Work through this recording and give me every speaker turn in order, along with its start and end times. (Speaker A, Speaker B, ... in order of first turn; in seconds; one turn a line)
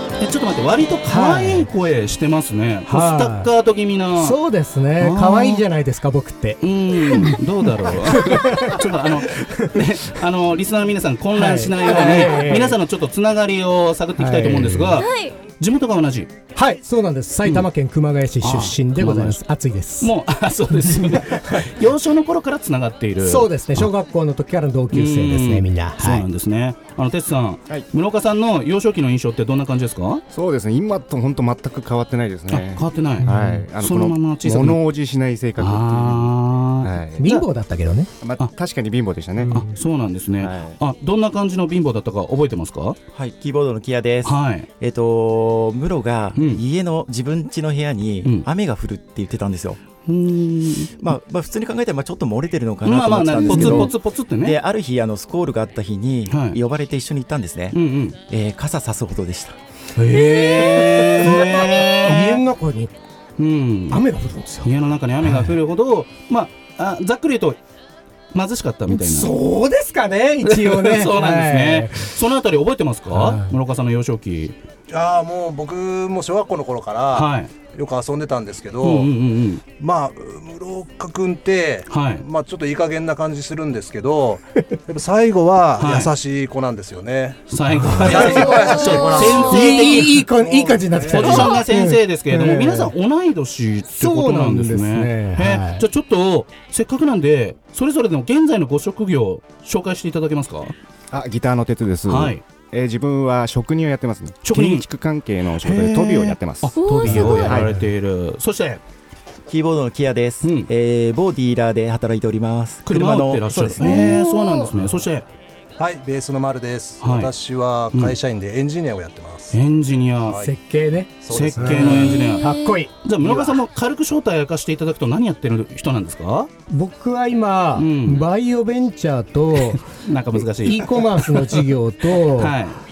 Speaker A: 0.2-4.4
Speaker B: 1.1-1.7
Speaker B: 2.9-3.5
Speaker B: 4.2-9.8
Speaker A: 5.0-5.6
Speaker A: 6.6-15.1
Speaker B: 11.3-12.8
Speaker B: 14.2-15.0
Speaker C: 14.9-15.4
Speaker A: 15.6-16.3
Speaker B: 16.5-20.1
Speaker A: 18.4-19.4
Speaker A: 20.0-23.9
Speaker B: 20.8-21.7
Speaker B: 23.2-26.2
Speaker A: 24.9-30.2
Speaker D: 30.3-37.3
Speaker A: 32.5-34.8
Speaker B: 33.2-33.6
Speaker A: 35.6-37.4
Speaker B: 37.2-38.1
Speaker D: 38.2-39.6
Speaker B: 39.4-39.7
Speaker A: 39.5-43.0
Speaker E: 40.4-40.8
Speaker E: 43.1-49.8
Speaker A: 44.2-44.7
Speaker A: 46.3-46.6
Speaker A: 50.0-51.0
Speaker E: 51.0-57.8
Speaker A: 52.8-54.6
Speaker B: 53.4-53.9
Speaker A: 56.3-56.6
Speaker A: 57.7-58.2
Speaker E: 58.3-59.5
Speaker A: 60.0-62.4
Speaker B: 60.0-62.9
Speaker A: 63.4-64.0
Speaker B: 63.9-64.7
Speaker A: 64.6-67.6
Speaker B: 65.2-65.5
Speaker A: 68.3-69.3
Speaker B: 68.9-72.1
Speaker A: 70.4-74.5
Speaker B: 73.1-73.5
Speaker F: 74.9-79.1
Speaker A: 77.1-77.5
Speaker A: 78.8-79.6
Speaker F: 79.8-87.5
Speaker A: 81.9-82.2
Speaker A: 85.8-86.1
Speaker A: 87.5-90.2
Speaker B: 87.7-92.9
Speaker F: 88.0-91.4
Speaker C: 88.5-89.8
Speaker A: 91.1-100.7
Speaker B: 94.0-95.8
Speaker D: 101.1-107.7
Speaker A: 102.1-102.4
Speaker A: 104.4-104.8
Speaker A: 105.6-108.8
Speaker C: 106.8-107.6
Speaker B: 107.5-107.8
Speaker E: 109.5-114.2
Speaker A: 110.4-110.7
Speaker A: 112.8-115.3
Speaker C: 113.8-114.7
Speaker F: 115.8-119.6
Speaker A: 117.0-117.3
Speaker A: 119.5-120.4
Speaker B: 120.4-122.9
Speaker F: 121.2-122.2
Speaker A: 121.3-122.5
Speaker C: 121.9-122.8
Speaker A: 123.0-126.5
Speaker F: 123.2-123.6
Speaker B: 126.7-132.6
Speaker A: 127.7-128.2
Speaker A: 129.9-132.8